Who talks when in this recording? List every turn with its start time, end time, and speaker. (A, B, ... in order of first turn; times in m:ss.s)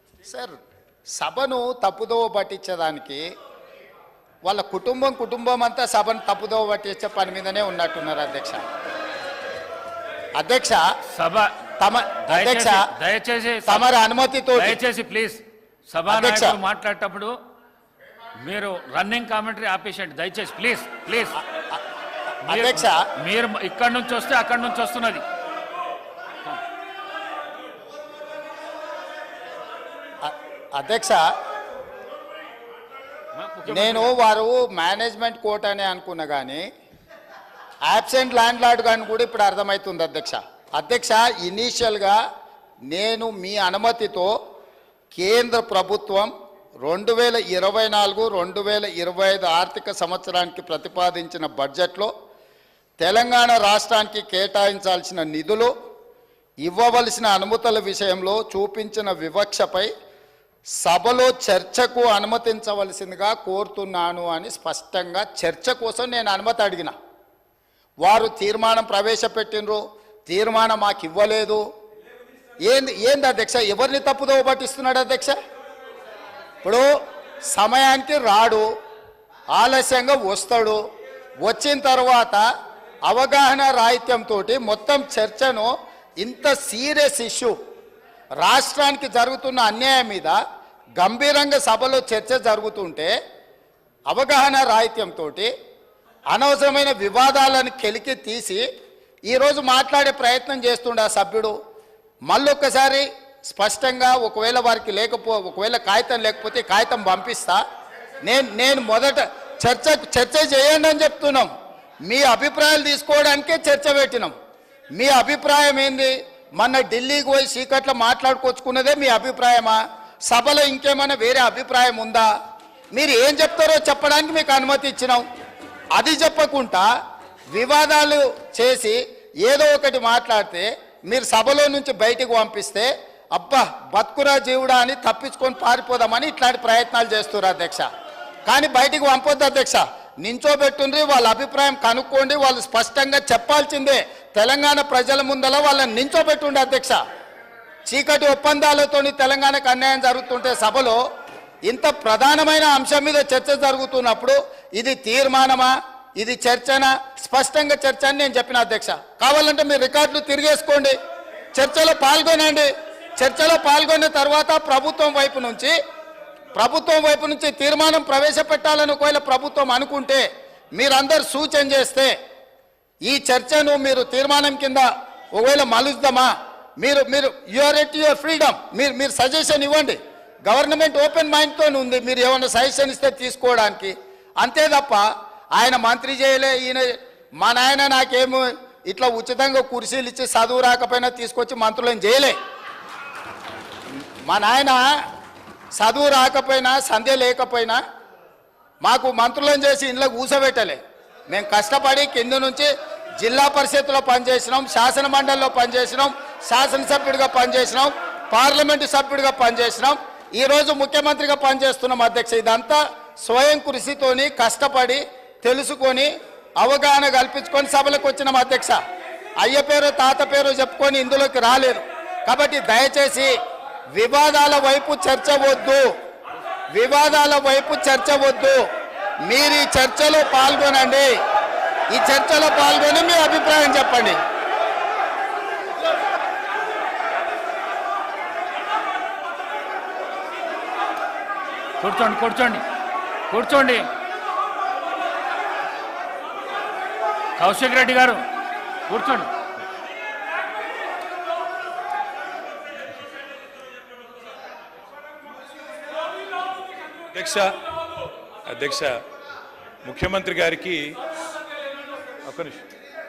0:00.3-0:00.6 A
0:01.2-0:03.2 A
0:04.5-0:08.6 A
0:10.4-0:10.8 A
0:11.1-0:11.5 B
0:11.8-0:12.9 A
0:12.2-0:13.9 B
0:13.7-0:14.8 A
0:14.6-0:17.4 B
0:16.1-0:16.6 A
0:18.4-0:21.4 B
0:22.5-0:25.2 B
0:22.5-0:23.0 A
0:30.2-0:31.2 A
0:33.4-0:34.2 B
0:33.7-0:36.7 A
0:37.9-0:42.2 A
0:42.9-0:44.4 A
0:45.1-0:46.3 A
0:46.8-0:52.1 A
0:53.0-0:55.7 A
0:56.6-0:59.9 A
1:00.8-1:06.9 A
1:08.0-1:11.6 A
1:12.6-1:15.4 A
1:16.6-1:16.9 A
1:17.5-1:18.7 A
1:19.5-1:20.8 A
1:21.4-1:22.5 A
1:23.1-1:27.6 A
1:28.4-1:30.4 A
1:31.0-1:33.1 A
1:34.1-1:35.5 A
1:36.3-1:38.6 A
1:39.3-1:41.6 A
1:42.3-1:47.6 A
1:48.2-1:51.5 A
1:52.1-1:54.3 A
1:55.0-2:02.3 A
2:02.9-2:05.2 A
2:06.0-2:06.9 A
2:07.5-2:17.9 A
2:18.5-2:27.0 A
2:27.9-2:31.0 A
2:31.7-2:41.0 A
2:41.6-2:45.8 A
2:46.6-2:52.1 A
2:53.0-3:12.4 A
3:14.3-3:14.8 A
3:15.8-3:17.8 A
3:18.8-3:38.8 A
3:39.4-3:43.3 A
3:44.0-3:45.9 A
3:46.7-3:48.6 A
3:49.3-3:51.1 A
3:51.9-3:54.2 A
4:01.8-4:02.6 B
4:03.3-4:03.9 B
4:07.4-4:08.2 B
4:08.9-4:09.3 B
4:17.1-4:17.5 C
4:18.5-4:19.0 C
4:19.8-4:21.0 C
4:22.2-4:22.6 C